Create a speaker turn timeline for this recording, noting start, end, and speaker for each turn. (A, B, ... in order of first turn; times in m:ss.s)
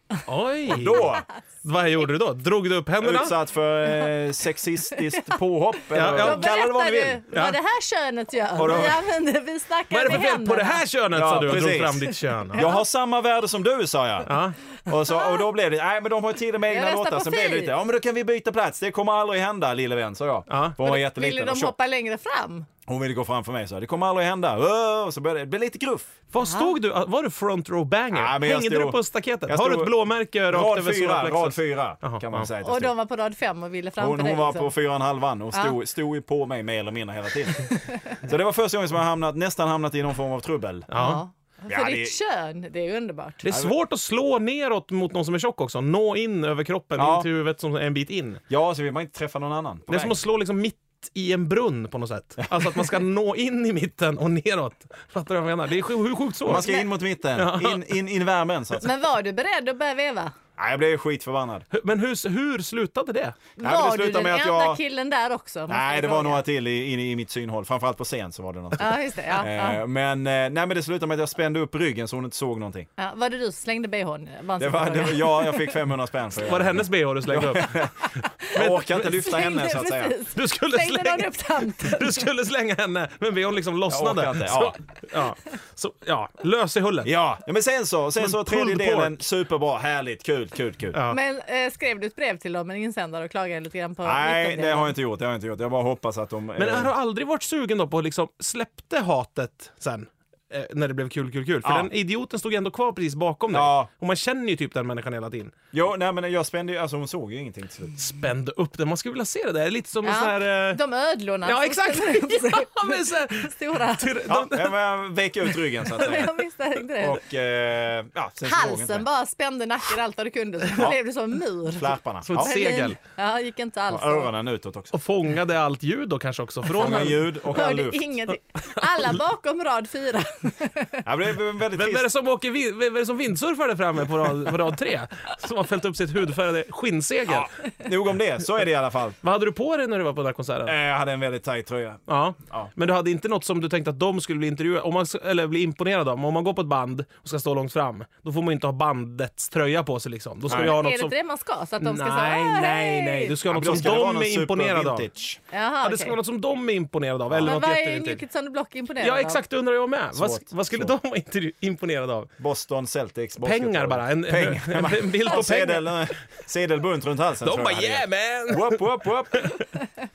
0:00.3-0:03.3 A
0:00.6-0:01.2 B
0:03.0-0:07.2 B
0:05.9-0:06.5 A
0:06.1-0:10.8 C
0:07.3-0:07.6 A
0:08.6-0:09.0 B
0:09.9-0:12.7 A
0:11.1-0:14.3 B
0:12.5-0:12.8 C
0:14.3-0:14.6 A
0:14.8-0:21.7 B
0:15.1-0:15.4 C
0:16.7-0:17.7 C
0:20.5-0:20.8 A
0:20.8-0:22.7 C
0:22.9-0:26.1 B
0:26.3-0:32.5 A
0:26.4-0:26.7 C
0:28.1-0:29.9 B
0:30.5-0:32.9 B
0:32.6-0:34.7 C
0:34.0-0:40.9 B
0:40.9-0:41.2 A
0:40.9-0:43.4 C
0:41.7-0:42.2 B
0:43.4-0:48.4 A
0:43.5-0:43.7 B
0:47.0-0:47.3 B
0:48.5-0:50.2 B
0:49.9-0:56.7 A
0:56.4-0:58.9 B
0:56.6-0:56.9 C
0:57.3-0:57.8 A
0:58.7-1:00.3 C
1:00.6-1:01.7 B
1:01.7-1:03.4 A
1:03.6-1:06.4 C
1:03.6-1:04.8 B
1:05.7-1:12.9 B
1:08.8-1:09.8 C
1:13.0-1:15.8 C
1:14.6-1:20.2 B
1:16.4-1:17.9 A
1:18.0-1:22.3 C
1:18.5-1:19.1 A
1:20.3-1:27.1 A
1:23.9-1:24.8 B
1:27.0-1:31.0 B
1:28.2-1:29.2 A
1:31.1-1:35.0 C
1:34.0-1:36.9 B
1:36.6-1:45.5 A
1:41.6-1:41.9 B
1:43.5-1:43.9 B
1:45.7-1:48.0 B
1:48.0-1:50.8 A
1:50.0-1:54.2 C
1:51.4-1:54.7 A
1:54.3-1:56.4 B
1:55.5-1:56.2 A
1:56.0-1:57.2 C
1:57.0-1:59.1 B
1:58.4-2:04.3 C
2:01.7-2:02.7 B
2:02.2-2:03.0 A
2:03.9-2:04.9 B
2:04.9-2:07.3 A
2:06.7-2:08.2 B
2:07.3-2:11.0 C
2:11.0-2:12.1 B
2:11.7-2:17.5 A
2:17.3-2:19.2 B
2:19.2-2:20.7 A
2:20.6-2:22.7 B
2:22.1-2:31.1 A
2:30.5-2:30.7 B
2:30.5-2:33.4 C
2:31.8-2:35.1 A
2:33.5-2:35.4 B
2:35.5-2:36.1 C
2:35.8-2:38.2 A
2:37.3-2:37.5 B
2:37.4-2:39.4 C
2:39.0-2:42.3 A
2:40.1-2:40.9 B
2:42.4-2:49.6 B
2:43.4-2:46.1 A
2:47.4-2:49.6 A